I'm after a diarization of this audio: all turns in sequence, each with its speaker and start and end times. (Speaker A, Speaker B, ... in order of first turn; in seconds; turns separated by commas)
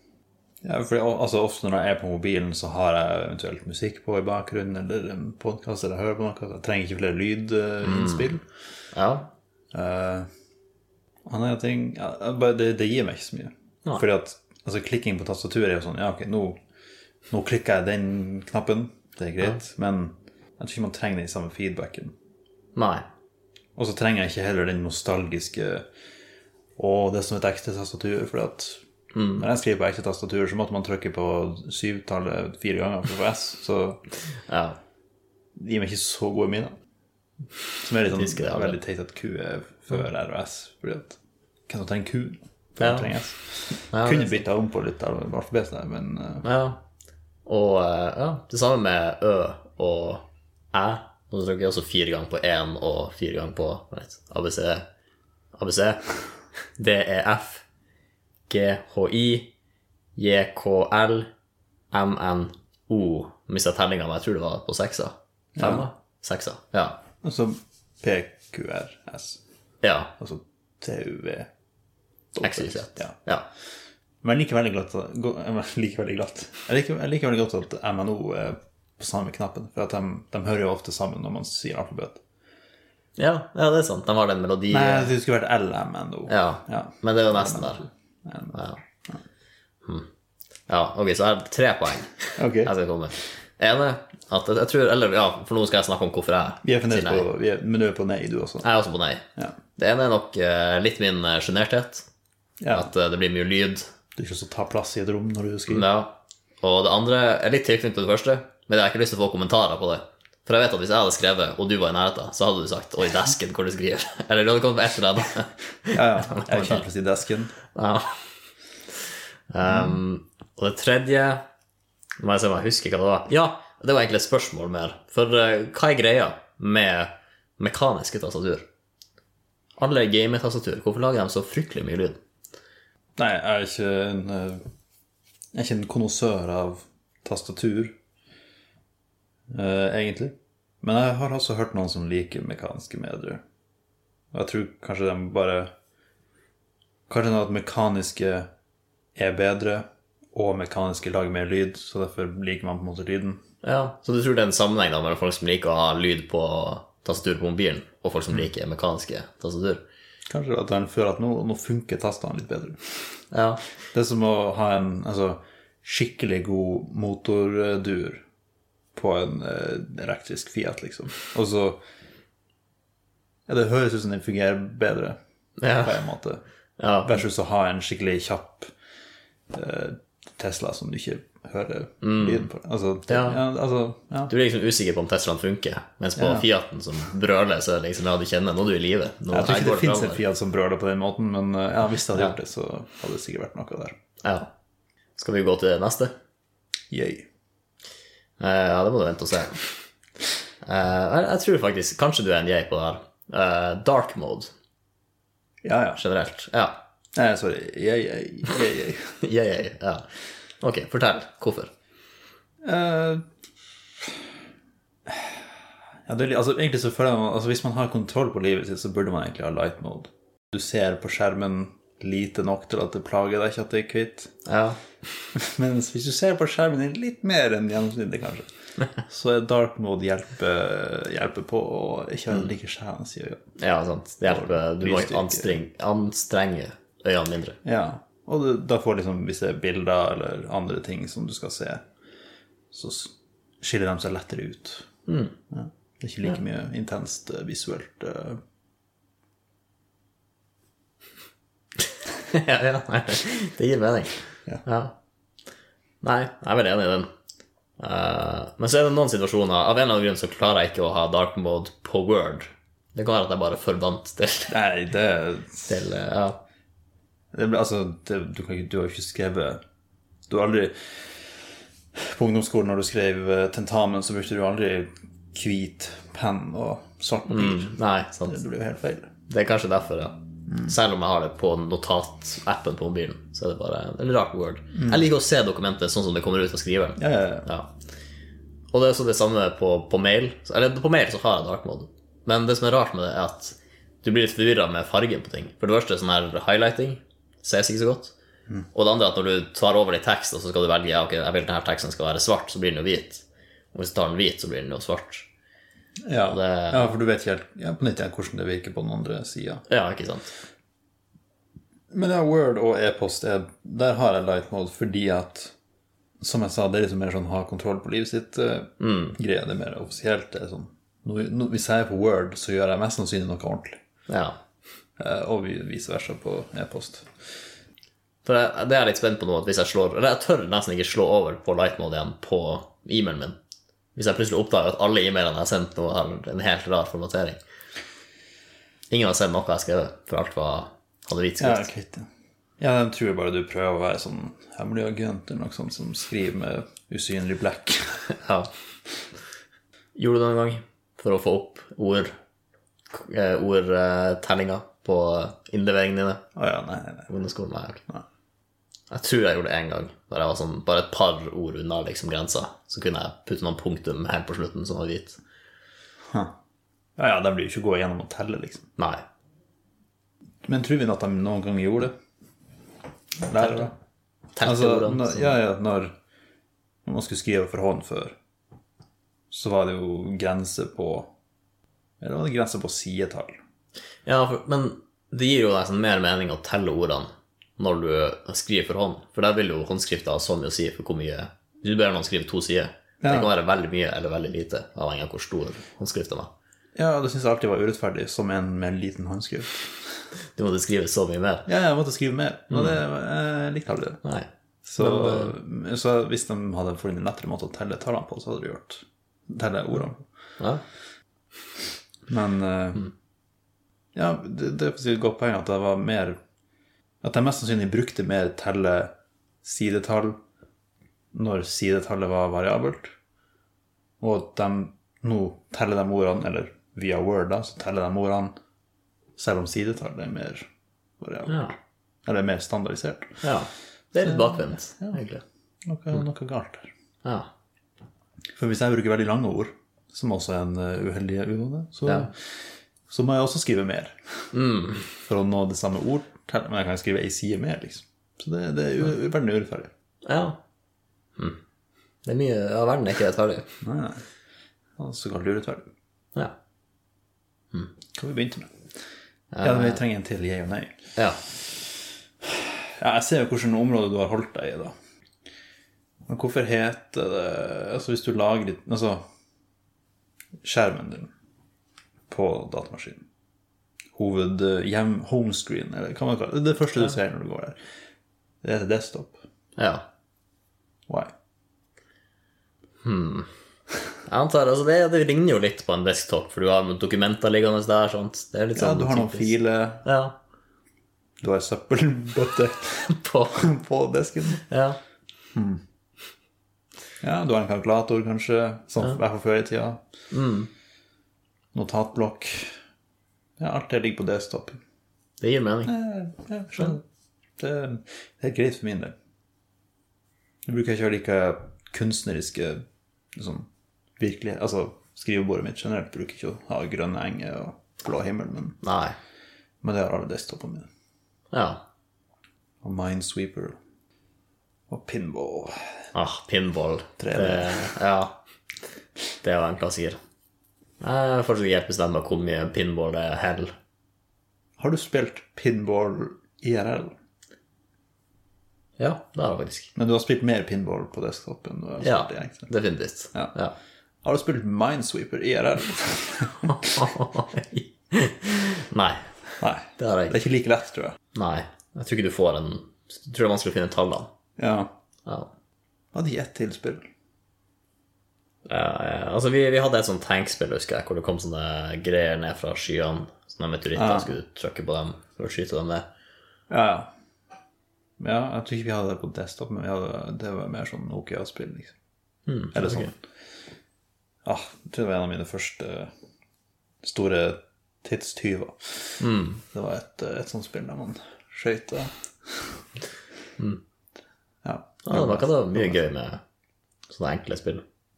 Speaker A: 0.6-8.4, Speaker B: 7.8-8.3, Speaker B: 8.9-9.3, Speaker A: 9.7-10.3, Speaker A: 11.2-16.6, Speaker A: 17.3-22.1, Speaker B: 22.8-23.0, Speaker A: 23.8-25.9, Speaker A: 26.8-28.8, Speaker B: 29.1-29.5, Speaker A: 29.4-34.0, Speaker B: 34.5-34.8, Speaker A: 35.6-36.7, Speaker A: 37.8-46.5, Speaker B: 38.1-38.8, Speaker B: 42.8-43.1, Speaker B: 43.8-44.4, Speaker B: 46.4-46.8, Speaker B: 47.5-54.9, Speaker B: 55.5-56.0, Speaker B: 56.8-57.6, Speaker B: 58.5-59.5, Speaker B: 60.1-61.3, Speaker B: 61.9-67.0, Speaker A: 65.6-65.9, Speaker A: 67.2-69.4, Speaker B: 69.8-70.1, Speaker A: 70.2-71.5, Speaker A: 72.3-73.1, Speaker B: 72.4-73.5, Speaker A: 74.2-82.2, Speaker B: 83.2-85.1, Speaker A: 84.7-89.2, Speaker B: 86.3-87.8, Speaker B: 88.5-88.8, Speaker B: 90.7-97.2, Speaker A: 92.4-92.7, Speaker A: 96.6-98.7, Speaker B: 98.6-102.0, Speaker A: 102.6-102.9, Speaker B: 102.7-103.9, Speaker A: 104.2-105.8, Speaker B: 105.7-116.8, Speaker A: 115.9-117.5, Speaker B: 117.7-118.3, Speaker B: 119.5-121.4, Speaker B: 122.2-128.6, Speaker B: 129.8-132.2, Speaker A: 133.2-134.6, Speaker A: 135.5-137.9, Speaker A: 139.5-143.4, Speaker A: 144.3-145.7, Speaker A: 147.1-148.5, Speaker A: 149.2-153.4, Speaker B: 153.6-159.8, Speaker A: 160.3-162.8, Speaker B: 163.3-163.6, Speaker A: 163.9-168.2, Speaker A: 168.9-171.8, Speaker A: 173.5-175.2, Speaker B: 175.6-176.0, Speaker A: 175.7-176.4, Speaker B: 176.8-177.2, Speaker A: 177.0-178.7, Speaker A: 179.5-184.3, Speaker B: 182.0-182.5, Speaker B: 183.1-183.4, Speaker B: 184.3-190.2, Speaker A: 186.2-186.5, Speaker A: 189.3-193.9, Speaker B: 194.2-194.5, Speaker B: 195.2-196.1, Speaker A: 196.9-197.2, Speaker B: 198.4-199.6, Speaker B: 200.6-204.5, Speaker A: 205.6-206.0, Speaker B: 205.9-206.8, Speaker A: 207.1-209.2, Speaker B: 209.2-210.1, Speaker B: 210.6-211.7, Speaker A: 212.6-213.2, Speaker A: 215.1-215.4, Speaker A: 216.1-224.3, Speaker B: 224.4-224.8, Speaker A: 225.3-233.5, Speaker B: 233.6-237.6, Speaker A: 234.3-235.6, Speaker A: 237.6-241.8, Speaker A: 242.7-244.9, Speaker B: 245.1-245.3, Speaker A: 245.5-248.4, Speaker B: 252.2-254.9, Speaker B: 256.0-257.1, Speaker B: 257.8-264.5, Speaker A: 264.5-265.7, Speaker B: 265.7-266.4, Speaker A: 267.3-269.6, Speaker A: 270.3-271.1, Speaker A: 272.0-277.7, Speaker B: 277.3-278.4, Speaker A: 278.2-279.1, Speaker B: 279.3-287.7, Speaker A: 280.5-280.7, Speaker A: 284.8-285.1, Speaker A: 287.0-287.5, Speaker B: 288.7-298.1, Speaker B: 298.7-305.3, Speaker A: 306.1-309.6, Speaker B: 306.3-306.9, Speaker B: 309.7-310.3, Speaker A: 311.9-315.5, Speaker A: 316.2-323.8, Speaker B: 318.8-319.2, Speaker B: 324.1-324.3, Speaker A: 325.0-327.1, Speaker B: 328.2-333.4, Speaker B: 333.9-337.4, Speaker B: 338.9-341.7, Speaker A: 341.4-342.1, Speaker A: 342.6-348.1, Speaker B: 348.2-348.5, Speaker B: 349.9-352.1, Speaker B: 352.9-356.2, Speaker A: 356.4-357.1, Speaker B: 357.1-357.8, Speaker B: 358.9-365.2, Speaker A: 366.1-366.3, Speaker A: 367.0-368.7, Speaker B: 368.8-369.0, Speaker A: 370.4-371.9, Speaker A: 373.2-373.7, Speaker B: 373.3-373.7, Speaker B: 374.4-375.4, Speaker A: 374.4-375.9, Speaker A: 376.8-378.1, Speaker A: 379.3-381.1, Speaker A: 382.0-383.4, Speaker B: 384.1-396.3, Speaker A: 393.0-393.3, Speaker A: 396.8-399.9, Speaker B: 400.4-401.5, Speaker A: 401.5-404.0, Speaker B: 402.5-402.8, Speaker B: 404.0-405.3, Speaker A: 404.6-410.1, Speaker A: 412.1-412.9, Speaker A: 413.9-416.2, Speaker A: 417.0-418.9, Speaker A: 419.4-420.2, Speaker A: 421.1-422.9, Speaker A: 424.0-428.3, Speaker A: 429.2-430.5, Speaker A: 431.0-431.5, Speaker B: 431.3-431.5, Speaker A: 432.1-433.2, Speaker B: 433.2-435.2, Speaker A: 434.0-435.0, Speaker A: 435.6-436.7, Speaker B: 437.0-437.3, Speaker A: 438.4-442.3, Speaker A: 442.9-444.3, Speaker B: 444.3-444.9, Speaker A: 445.0-449.7, Speaker B: 450.0-450.4, Speaker B: 452.0-453.4, Speaker A: 453.6-454.0, Speaker A: 454.8-455.7, Speaker A: 457.9-458.5, Speaker B: 459.3-459.8, Speaker A: 459.4-460.8, Speaker A: 462.8-464.7, Speaker A: 466.1-469.0, Speaker A: 470.4-471.1, Speaker A: 472.1-473.1, Speaker A: 473.9-477.6, Speaker A: 478.4-479.2, Speaker B: 479.6-479.9, Speaker B: 482.8-483.3, Speaker B: 484.1-490.1, Speaker A: 488.5-489.9, Speaker A: 491.2-494.4, Speaker B: 492.9-493.4, Speaker B: 494.4-494.8, Speaker A: 495.3-495.6, Speaker A: 497.0-499.8, Speaker B: 500.1-500.5, Speaker A: 501.5-502.5, Speaker A: 503.4-504.6, Speaker B: 505.2-505.7, Speaker A: 505.6-506.8, Speaker A: 507.4-508.9, Speaker A: 510.4-512.6, Speaker A: 513.1-513.5, Speaker A: 514.0-518.6, Speaker B: 518.6-519.0, Speaker A: 519.6-520.7, Speaker B: 521.3-521.6, Speaker A: 522.6-523.6, Speaker A: 524.7-525.8, Speaker B: 525.9-528.2, Speaker A: 527.0-527.7, Speaker B: 529.2-530.0, Speaker B: 530.8-533.5, Speaker A: 534.6-536.9, Speaker B: 538.8-539.7, Speaker A: 539.7-542.5, Speaker B: 541.8-543.5, Speaker A: 544.0-546.8, Speaker B: 546.4-549.0, Speaker A: 549.4-551.0, Speaker B: 549.8-550.2, Speaker B: 551.1-554.1, Speaker A: 554.4-554.7, Speaker A: 555.9-556.8, Speaker B: 558.5-565.9, Speaker A: 563.7-564.1, Speaker A: 566.5-566.9, Speaker A: 568.0-571.7, Speaker B: 572.3-572.9, Speaker A: 572.5-573.0, Speaker A: 574.2-575.9, Speaker A: 576.8-582.5, Speaker B: 579.0-579.4, Speaker A: 584.4-585.8, Speaker B: 584.9-586.2, Speaker B: 586.9-587.6